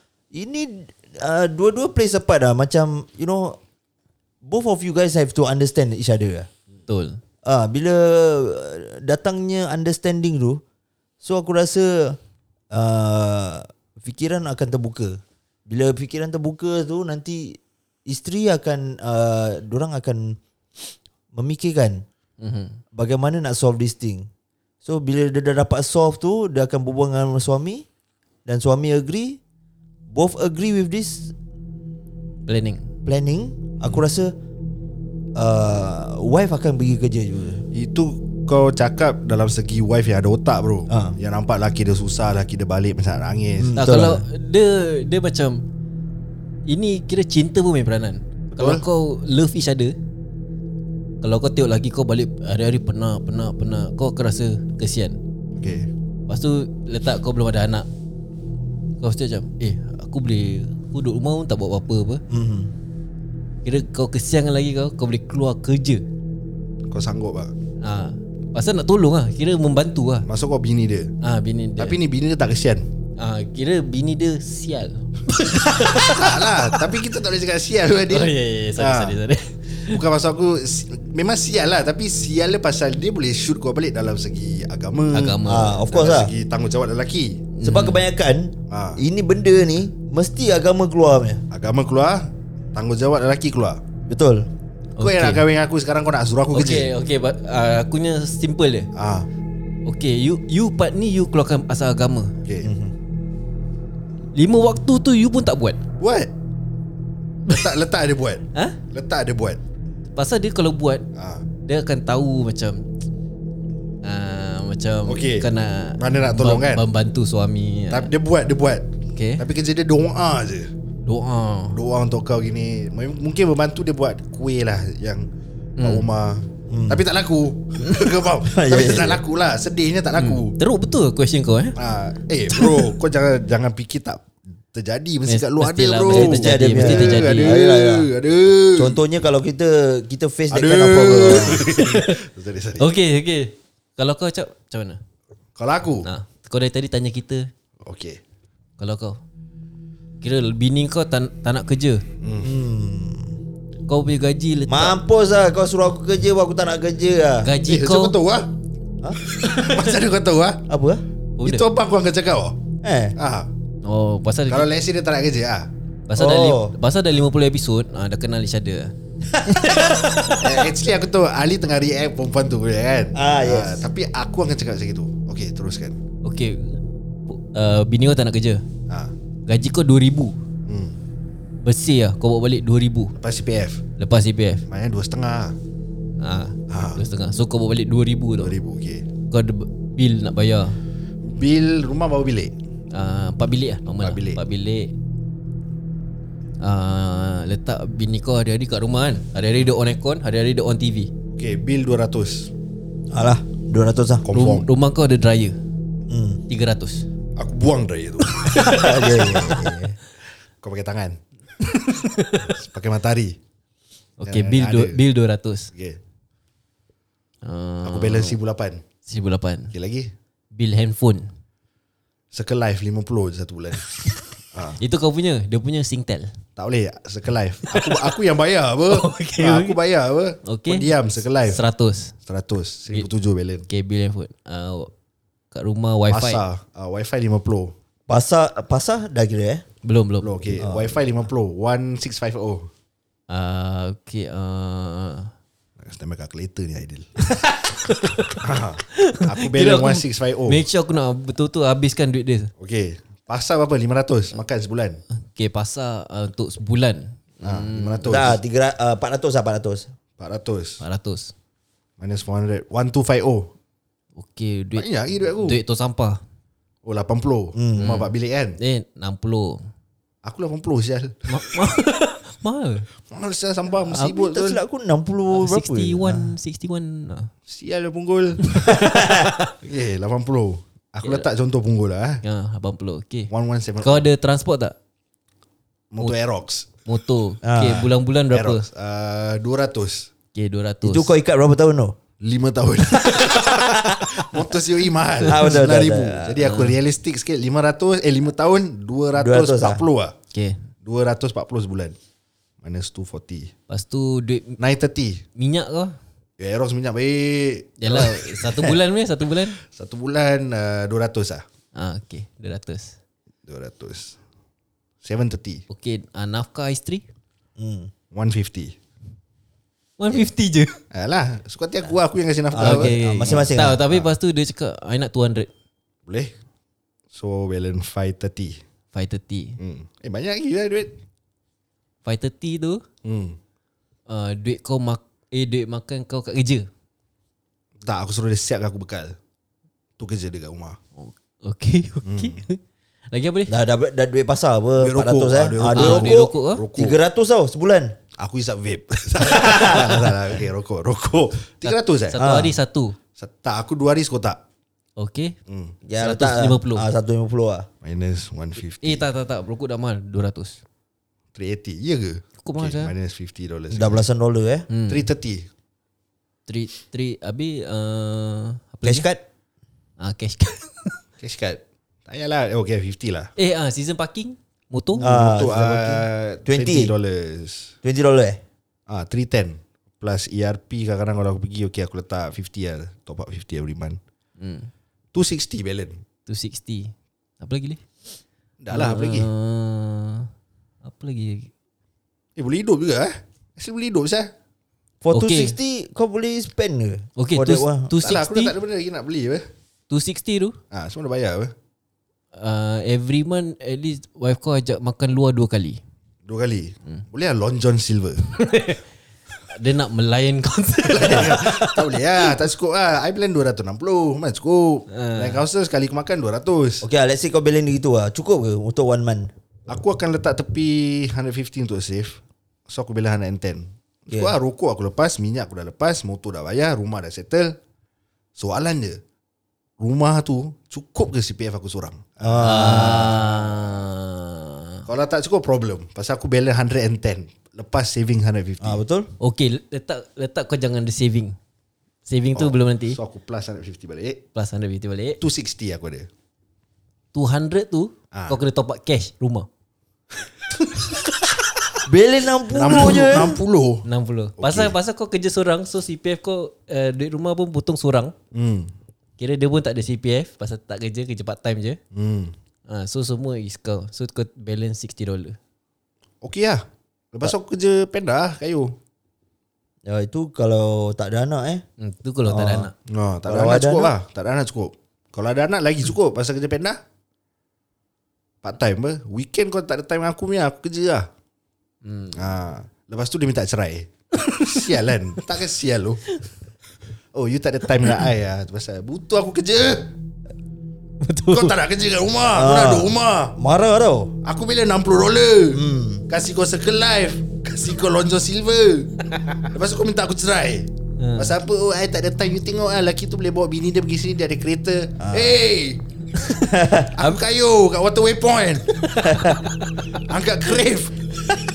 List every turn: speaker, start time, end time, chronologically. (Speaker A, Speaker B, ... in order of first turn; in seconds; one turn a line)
Speaker A: 0.3-3.6
Speaker A: 4.4-6.5
Speaker B: 6.9-7.2
Speaker A: 7.4-10.6
Speaker A: 11.2-12.2
Speaker A: 12.7-20.4
Speaker A: 21.3-22.0
Speaker B: 22.4-22.8
Speaker A: 22.9-24.3
Speaker A: 24.8-27.9
Speaker A: 28.4-29.4
Speaker A: 30.1-31.3
Speaker B: 32.5-32.9
Speaker A: 33.0-34.3
Speaker A: 35.4-37.6
Speaker C: 37.7-43.8
Speaker A: 40.9-41.1
Speaker A: 43.6-44.2
Speaker B: 43.8-45.6
Speaker B: 46.7-49.9
Speaker C: 48.5-48.8
Speaker B: 51.2-55.2
Speaker C: 55.6-55.9
Speaker B: 56.3-57.9
Speaker B: 59.0-62.2
Speaker A: 62.3-62.7
Speaker B: 63.6-66.0
Speaker C: 66.9-67.5
Speaker B: 67.8-70.2
Speaker C: 70.2-71.1
Speaker B: 71.2-72.0
Speaker C: 71.8-72.8
Speaker B: 73.2-76.8
Speaker C: 76.0-79.2
Speaker B: 78.1-80.0
Speaker C: 79.9-87.4
Speaker B: 85.1-85.8
Speaker A: 85.4-86.3
Speaker B: 87.5-88.0
Speaker A: 87.6-91.4
Speaker C: 88.7-89.0
Speaker C: 91.5-93.8
Speaker A: 94.0-94.5
Speaker B: 95.0-95.4
Speaker C: 95.0-96.9
Speaker B: 96.5-98.9
Speaker C: 98.9-99.3
Speaker B: 99.8-102.3
Speaker C: 102.4-102.7
Speaker A: 102.6-102.9
Speaker B: 104.3-105.8
Speaker C: 106.0-106.3
Speaker C: 107.5-109.6
Speaker B: 110.1-111.0
Speaker C: 111.1-111.4
Speaker B: 111.6-112.8
Speaker B: 114.0-118.1
Speaker C: 115.0-115.5
Speaker C: 116.0-116.8
Speaker C: 117.9-120.7
Speaker B: 119.1-119.4
Speaker B: 121.0-121.8
Speaker C: 121.7-125.2
Speaker B: 125.8-126.0
Speaker C: 125.8-130.5
Speaker A: 126.7-127.0
Speaker B: 127.8-128.1
Speaker A: 128.4-129.2
Speaker B: 130.2-131.7
Speaker C: 131.8-139.0
Speaker B: 132.5-132.9
Speaker B: 135.3-137.6
Speaker A: 136.1-138.1
Speaker A: 138.8-141.7
Speaker C: 140.5-142.9
Speaker B: 141.5-142.2
Speaker B: 142.8-145.0
Speaker C: 145.6-146.1
Speaker B: 146.0-147.5
Speaker C: 147.8-148.2
Speaker B: 148.8-149.2
Speaker B: 150.2-152.0
Speaker C: 152.2-152.6
Speaker A: 152.4-153.3
Speaker B: 153.9-155.0
Speaker A: 154.7-157.5
Speaker B: 157.4-158.2
Speaker C: 157.7-158.5
Speaker C: 159.3-160.6
Speaker B: 159.4-159.8
Speaker A: 160.7-161.0
Speaker B: 161.4-161.6
Speaker C: 161.4-162.6
Speaker A: 162.8-163.2
Speaker C: 163.2-163.5
Speaker B: 163.8-164.7
Speaker C: 164.5-165.7
Speaker B: 166.1-170.6
Speaker A: 166.2-166.7
Speaker A: 169.3-170.1
Speaker C: 170.4-176.0
Speaker A: 173.1-173.9
Speaker B: 176.2-178.6
Speaker B: 179.5-180.3
Speaker C: 180.7-180.9
Speaker B: 181.6-183.1
Speaker C: 183.2-183.8
Speaker B: 184.0-184.6
Speaker C: 184.7-185.6
Speaker B: 186.2-188.5
Speaker C: 186.7-187.0
Speaker C: 188.4-189.0
Speaker B: 189.3-190.8
Speaker C: 191.2-192.5
Speaker B: 192.9-194.9
Speaker C: 194.0-194.4
Speaker B: 196.6-201.1
Speaker C: 201.3-202.5
Speaker A: 203.1-204.3
Speaker C: 204.2-204.7
Speaker B: 204.3-205.6
Speaker A: 206.1-206.4
Speaker B: 206.5-207.0
Speaker C: 207.4-209.4
Speaker B: 208.3-209.6
Speaker A: 208.5-210.0
Speaker C: 210.6-211.2
Speaker B: 211.6-212.5
Speaker C: 212.5-213.4
Speaker B: 214.2-215.7
Speaker C: 214.2-215.0
Speaker C: 215.7-216.0
Speaker B: 217.4-218.4
Speaker C: 217.8-218.8
Speaker B: 219.1-219.7
Speaker C: 219.7-220.1
Speaker B: 220.5-221.3
Speaker C: 222.3-223.9
Speaker C: 224.5-224.8
Speaker B: 224.8-226.3
Speaker C: 226.6-231.6
Speaker B: 227.7-228.1
Speaker B: 228.9-229.8
Speaker B: 230.4-230.9
Speaker B: 231.4-232.1
Speaker C: 232.2-233.7
Speaker B: 233.7-234.9
Speaker B: 235.5-236.4
Speaker C: 236.1-237.7
Speaker A: 238.1-239.6
Speaker B: 239.8-240.3
Speaker C: 240.2-242.7
Speaker A: 240.6-241.0
Speaker B: 243.3-245.3
Speaker C: 245.8-247.1
Speaker B: 247.3-252.5
Speaker C: 248.4-250.6
Speaker C: 252.6-255.0
Speaker B: 255.1-258.2
Speaker C: 257.4-258.4
Speaker A: 258.1-259.9
Speaker C: 260.2-260.8
Speaker B: 260.8-261.3
Speaker C: 262.0-263.5
Speaker B: 264.2-264.9
Speaker C: 264.8-265.6
Speaker B: 265.4-266.2
Speaker C: 266.8-268.6
Speaker A: 267.6-267.9
Speaker B: 267.8-269.6
Speaker C: 270.2-271.5
Speaker B: 271.3-272.9
Speaker C: 273.1-274.6
Speaker A: 273.9-276.3
Speaker B: 275.3-277.3
Speaker C: 277.5-278.6
Speaker B: 278.4-279.5
Speaker A: 278.7-279.3
Speaker C: 279.6-282.2
Speaker B: 282.2-283.3
Speaker C: 283.3-284.1
Speaker B: 283.8-284.8
Speaker C: 285.9-286.7
Speaker B: 286.8-288.6
Speaker A: 287.4-287.9
Speaker C: 288.3-290.1
Speaker B: 290.3-291.1
Speaker A: 290.8-291.9
Speaker C: 292.2-300.1
Speaker B: 295.2-295.5
Speaker A: 295.3-296.4
Speaker B: 296.4-296.8
Speaker A: 299.1-299.8
Speaker B: 300.3-300.6
Speaker C: 300.8-301.9
Speaker C: 302.6-303.5
Speaker B: 303.7-304.6
Speaker C: 304.6-305.2
Speaker B: 305.4-306.0
Speaker C: 306.4-308.4
Speaker B: 307.8-309.6
Speaker C: 309.6-311.4
Speaker B: 311.7-313.0
Speaker C: 313.4-314.2
Speaker C: 315.0-315.6
Speaker B: 315.7-317.0
Speaker A: 317.6-317.9
Speaker C: 318.1-318.8
Speaker B: 320.0-320.8
Speaker C: 320.9-324.1
Speaker A: 322.5-323.8
Speaker B: 322.6-325.5
Speaker C: 326.1-326.3
Speaker C: 327.1-328.6
Speaker B: 328.9-329.6
Speaker C: 329.6-330.9
Speaker B: 332.0-332.8
Speaker C: 333.0-333.4
Speaker B: 334.1-336.7
Speaker C: 337.8-339.1
Speaker C: 340.0-340.8
Speaker B: 341.0-342.6
Speaker C: 342.0-342.4
Speaker B: 343.1-343.5
Speaker A: 343.5-347.9
Speaker C: 344.8-347.0
Speaker B: 345.7-346.6
Speaker C: 348.2-352.2
Speaker A: 349.2-350.1
Speaker B: 351.6-352.9
Speaker A: 352.1-352.5
Speaker C: 353.2-354.4
Speaker B: 355.0-355.4
Speaker C: 355.5-355.7
Speaker A: 355.9-357.7
Speaker B: 356.0-356.9
Speaker C: 357.8-359.0
Speaker B: 358.8-360.6
Speaker C: 361.3-364.0
Speaker B: 362.4-362.9
Speaker A: 363.7-364.7
Speaker B: 364.7-365.1
Speaker C: 364.9-365.5
Speaker B: 366.5-369.1
Speaker A: 368.8-369.2
Speaker B: 370.0-371.0
Speaker C: 371.2-373.3
Speaker B: 373.4-375.1
Speaker C: 375.0-377.7
Speaker A: 375.0-376.9
Speaker A: 377.8-378.4
Speaker C: 378.9-384.0
Speaker B: 384.4-384.7
Speaker C: 385.1-386.0
Speaker B: 386.2-387.8
Speaker C: 388.6-389.3
Speaker B: 388.7-390.3
Speaker B: 390.8-391.5
Speaker C: 392.4-394.3
Speaker A: 395.0-397.9
Speaker B: 395.1-395.6
Speaker B: 397.2-398.5
Speaker C: 398.0-399.4
Speaker B: 399.9-400.6
Speaker C: 400.7-401.5
Speaker B: 402.3-405.8
Speaker C: 406.2-408.3
Speaker B: 408.3-408.8
Speaker B: 409.5-412.3
Speaker C: 410.9-416.9
Speaker B: 414.9-415.4
Speaker A: 416.8-419.3
Speaker C: 419.7-427.6
Speaker C: 428.4-429.0
Speaker C: 429.8-433.8
Speaker A: 432.2-433.2
Speaker B: 432.4-434.8
Speaker C: 434.9-438.8
Speaker A: 438.6-439.1
Speaker B: 439.2-441.4
Speaker B: 442.1-443.0
Speaker C: 442.3-444.2
Speaker B: 444.3-445.2
Speaker C: 445.2-446.1
Speaker B: 447.1-449.5
Speaker C: 448.1-448.4
Speaker A: 451.8-453.4
Speaker C: 452.5-453.9
Speaker B: 453.8-458.1
Speaker C: 454.4-454.8
Speaker C: 458.3-458.7
Speaker B: 459.2-461.8
Speaker C: 461.9-462.3
Speaker B: 462.7-465.4
Speaker C: 466.2-468.7
Speaker A: 469.8-471.6
Speaker B: 471.8-472.7
Speaker A: 472.2-472.7
Speaker C: 472.9-476.8
Speaker A: 473.2-473.9
Speaker C: 478.4-481.1
Speaker B: 481.8-482.3
Speaker C: 482.1-486.1
Speaker B: 484.2-484.6
Speaker C: 487.1-489.9
Speaker B: 491.0-491.6
Speaker C: 491.3-493.3
Speaker A: 492.3-494.1
Speaker C: 494.2-505.8
Speaker A: 495.5-496.0
Speaker B: 501.0-501.3
Speaker A: 505.0-505.4
Speaker B: 506.1-506.5
Speaker A: 506.4-506.9
Speaker C: 506.8-508.9
Speaker B: 508.9-510.0
Speaker A: 509.0-509.4
Speaker C: 509.9-511.0